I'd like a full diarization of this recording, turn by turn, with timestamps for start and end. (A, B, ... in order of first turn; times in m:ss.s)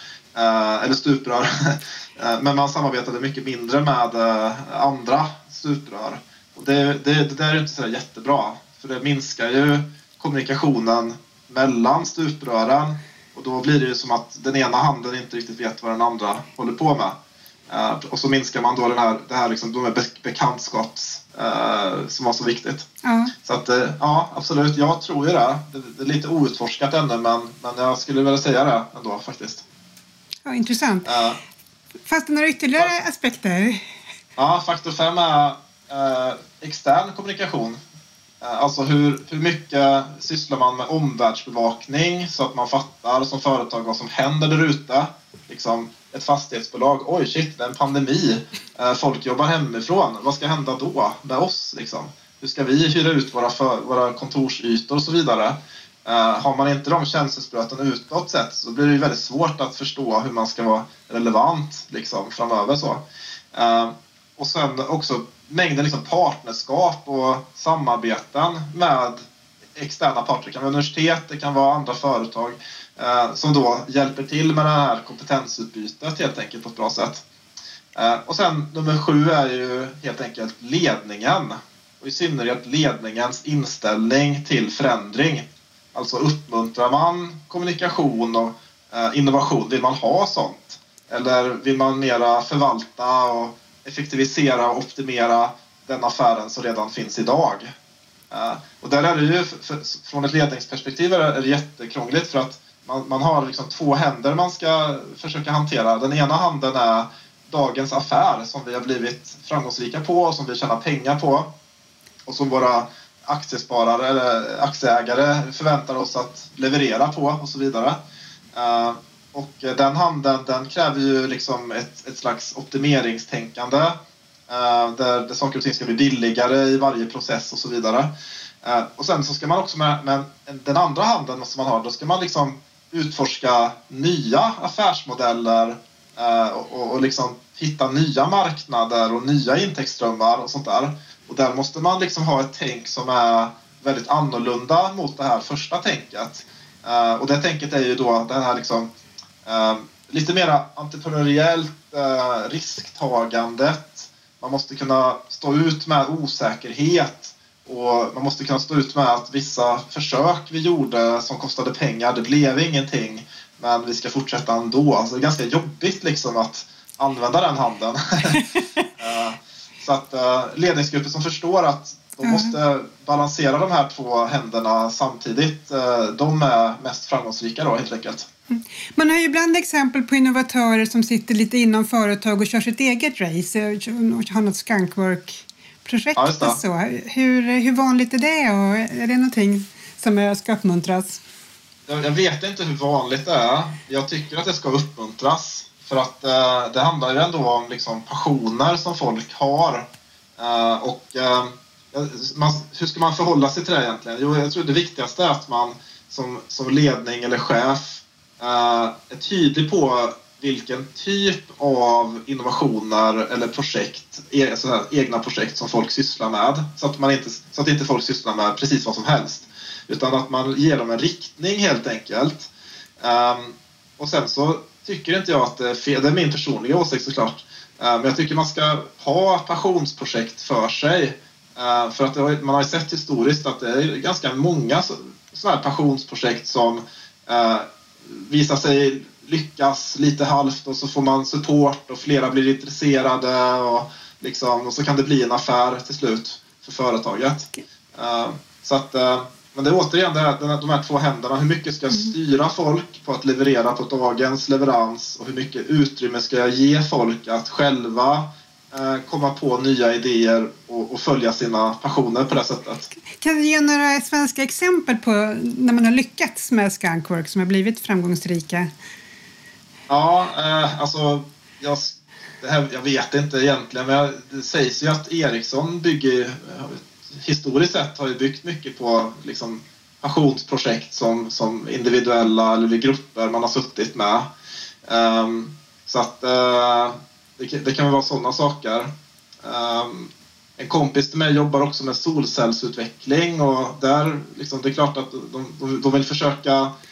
0:00.3-0:17.2 A
0:17.7-0:22.9 A
0:23.0-0:23.3 B
0:23.4-0:29.6 A
0:30.4-0:31.1 B
0:31.0-0:31.4 A
0:32.1-0:33.8 B
0:34.4-0:37.8 A
0:38.4-1:09.2 A
1:09.8-1:17.2 A
1:18.0-1:37.7 A
1:38.3-1:51.5 A
1:52.3-1:58.0 A
1:58.6-2:04.0 A
2:04.5-2:08.1 A
2:08.6-2:28.9 A
2:29.5-2:48.4 A
2:48.3-2:48.6 B
2:49.0-2:58.3 A
2:52.2-2:52.6 B
2:58.5-3:11.2 B
3:06.2-3:06.6 A
3:11.9-4:22.9 A
4:23.2-4:28.7 B
4:29.9-4:44.3 A
4:44.9-4:48.9 A
4:49.4-4:56.7 A